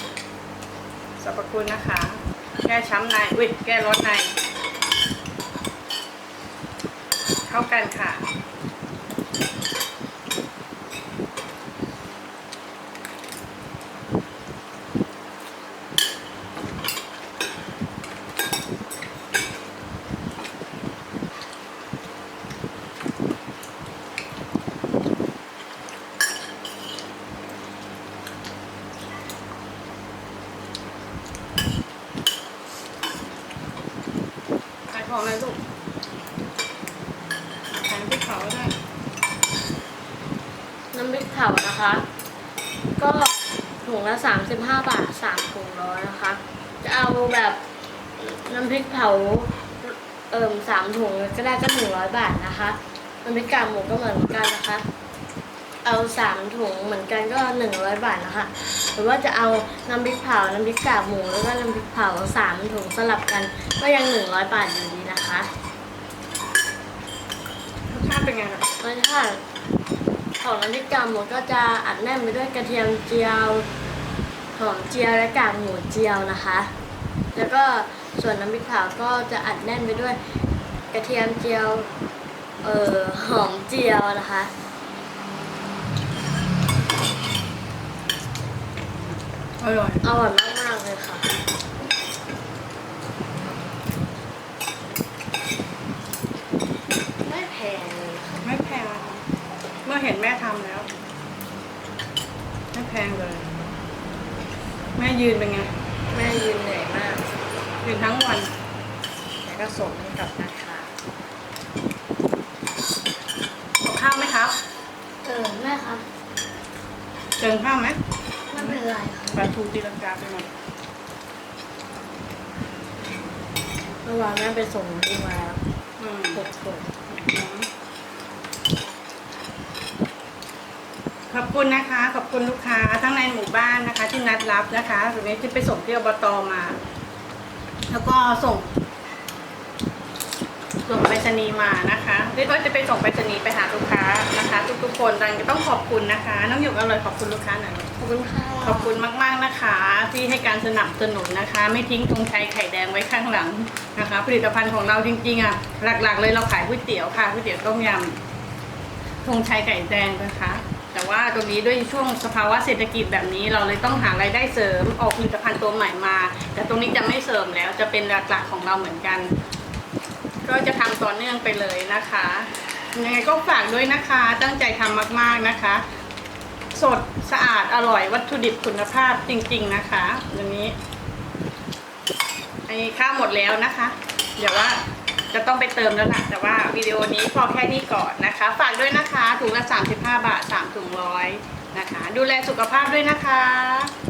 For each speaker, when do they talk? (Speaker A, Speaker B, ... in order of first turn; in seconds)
Speaker A: 1.2-4.3, 7.5-8.2, 34.9-35.6, 37.7-38.7, 67.9-68.7, 89.6-90.0, 98.4-99.2, 99.8-100.9, 102.7-103.5, 105.0-105.7, 107.8-108.5, 113.8-114.6, 117.4-118.0, 118.5-120.5, 126.0-126.4, 127.1-127.7, 131.3-136.8, 137.9-138.7, 140.8-147.9, 148.6-158.2, 159.2-169.3, 170.4-175.8, 176.7-180.7, 182.7-193.9
Speaker B: 40.9-42.0, 43.0-47.6, 48.2-54.8, 55.8-65.5, 68.8-69.4, 70.4-73.7, 74.5-76.7, 77.3-80.2, 80.9-81.9, 82.6-84.5, 90.0-91.3, 97.2-98.5, 106.1-107.2, 109.4-110.9, 115.2-116.0, 118.5-119.5, 124.0-125.6, 126.3-127.0, 148.0-149.0